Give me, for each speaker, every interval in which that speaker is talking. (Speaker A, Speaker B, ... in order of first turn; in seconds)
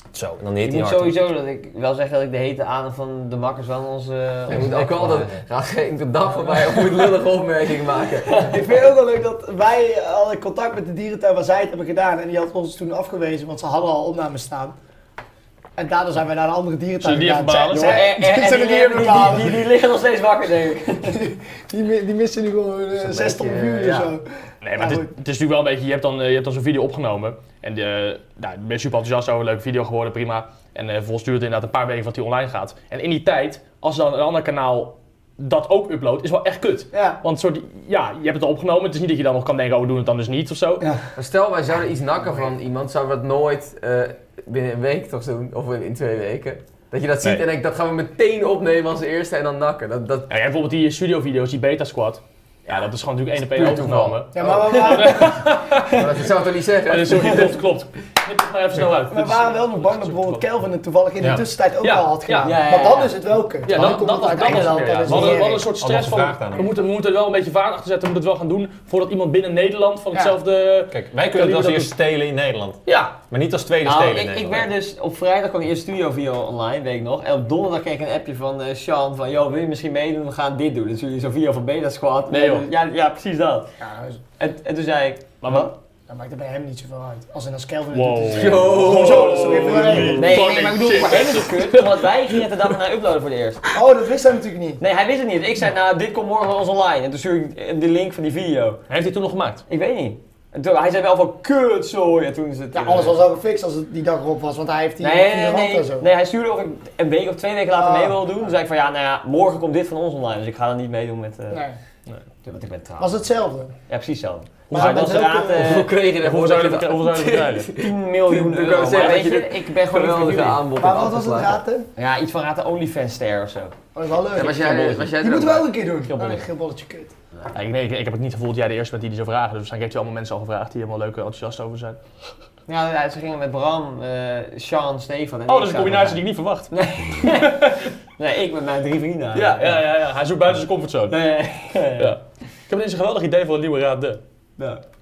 Speaker A: 0.1-1.2, 61.2-61.5, 65.0-66.7, 70.9-74.7
Speaker B: 0.6-5.4, 17.7-21.2, 62.4-63.1, 72.9-73.1, 73.8-83.7, 84.4-85.7, 90.0-93.6, 94.8-98.8, 99.7-103.2, 105.0-111.6, 112.4-113.2, 113.9-115.9, 117.7-120.7, 122.0-123.8, 132.7-139.8, 141.1-142.2
Speaker C: 4.5-8.5, 22.9-24.1, 41.1-50.3, 53.5-54.8, 55.9-57.6, 88.3-90.1, 115.6-121.6, 124.3-125.7
Speaker D: 8.4-14.8, 15.8-19.6, 21.0-25.1, 36.9-37.2, 54.3-55.4, 59.1-65.7, 83.8-84.2, 86.1-90.5, 93.7-94.8, 102.7-106.1, 107.8-108.2, 111.5-111.8, 113.0-113.7, 114.7-115.8, 120.8-121.9, 123.9-127.1
Speaker E: 17.0-18.2, 24.6-40.9, 50.3-56.2, 56.9-60.4, 61.8-62.5, 63.6-71.9, 82.3-82.7, 85.4-85.7, 87.9-92.4, 98.9-99.6, 114.7-115.2, 116.0-117.7, 127.5-132.0, 135.5-136.7, 137.3-137.7, 139.3-141.2, 142.0-144.2